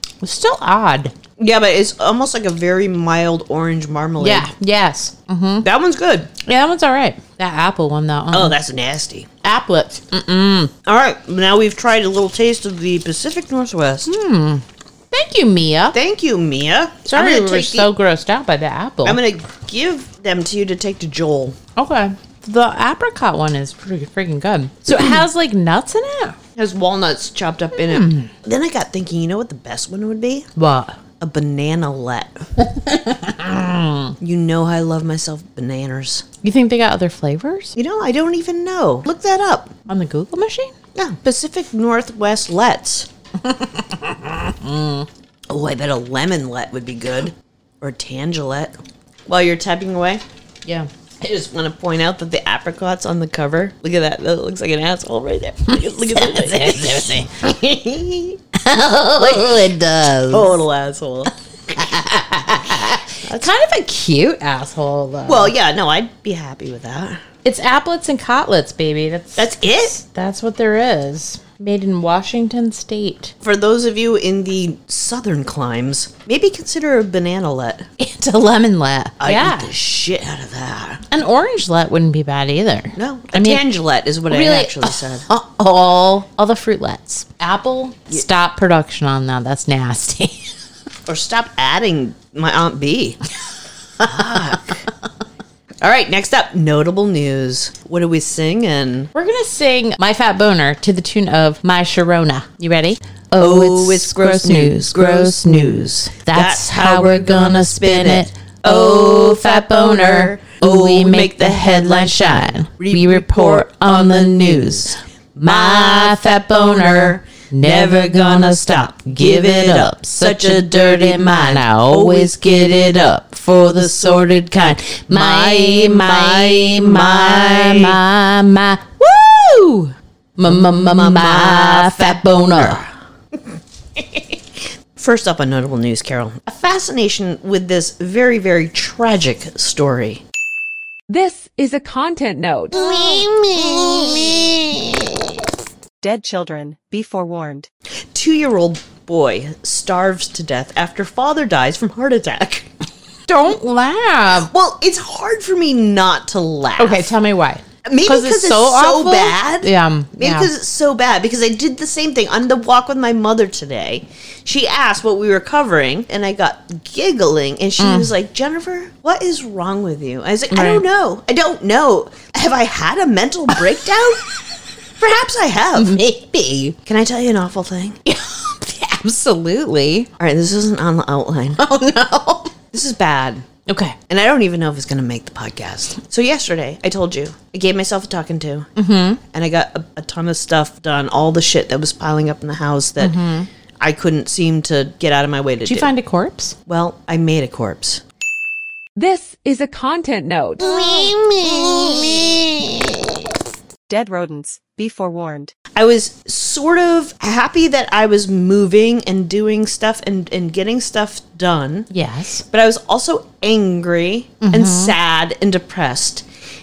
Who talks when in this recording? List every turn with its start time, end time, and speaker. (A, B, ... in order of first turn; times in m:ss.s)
0:00.2-0:01.1 A
0:01.4-0:04.5 B
0:04.2-0:05.7 A
0:05.6-0:06.3 B
0:06.4-0:08.5 A
0:08.3-0:09.3 B
0:09.4-0:10.7 A
0:10.8-0:14.1 B
0:14.0-0:16.0 A
0:15.9-0:17.9 B
0:17.0-0:19.2 A
0:19.0-0:21.6 B
0:21.8-0:26.4 A
0:26.6-0:30.5 B
0:27.8-0:28.3 A
0:30.6-0:31.0 A
0:31.2-0:32.5 B
0:32.6-0:34.1 A
0:34.2-0:36.2 B
0:36.4-0:37.8 A
0:37.8-0:39.8 B
0:39.9-0:40.7 A
0:40.9-0:43.1 B
0:43.5-0:45.1 A
0:45.5-0:48.8 B
0:49.3-0:50.2 B
0:51.2-0:58.4 B
0:55.7-0:57.6 A
0:58.5-1:00.5 A
0:59.2-0:59.6 B
1:00.3-1:01.3 B
1:01.7-1:05.5 A
1:03.2-1:03.5 B
1:05.2-1:07.2 B
1:07.4-1:13.3 A
1:09.4-1:10.0 B
1:13.4-1:17.9 B
1:18.0-1:19.7 A
1:19.2-1:21.0 B
1:21.1-1:23.6 A
1:23.0-1:25.2 B
1:24.3-1:30.5 A
1:31.1-1:33.2 B
1:34.0-1:34.8 B
1:34.2-1:34.4 A
1:35.8-1:39.1 B
1:39.1-2:12.8 A
1:43.4-2:03.1 B
2:03.7-2:08.0 B
2:10.5-2:12.9 B
2:14.0-2:14.4 B
2:15.0-2:20.2 B
2:21.1-2:23.1 C
2:22.7-2:25.1 B
2:26.0-2:27.7 D
2:28.1-2:32.7 B
2:33.3-2:34.5 A
2:34.3-2:37.1 B
2:36.8-2:40.5 A
2:37.8-2:54.2 B
2:47.8-2:48.1 A
2:50.5-2:50.8 A
2:55.0-2:55.9 B
2:55.8-2:56.8 A
2:56.9-2:58.0 B
2:58.0-3:00.1 A
3:00.2-3:01.6 B
3:01.6-3:02.5 A
3:02.7-3:03.4 B
3:03.7-3:04.0 A
3:04.1-3:08.7 B
3:08.8-3:09.2 A
3:09.2-3:13.2 B
3:13.0-3:13.5 A
3:13.8-3:15.9 B
3:15.6-3:16.6 A
3:16.7-3:18.0 B
3:19.0-3:21.0 C
3:20.6-3:23.1 B
3:23.9-3:25.5 D
3:25.8-3:31.9 B
3:31.9-3:32.4 A
3:32.4-3:36.2 B
3:34.4-3:35.0 A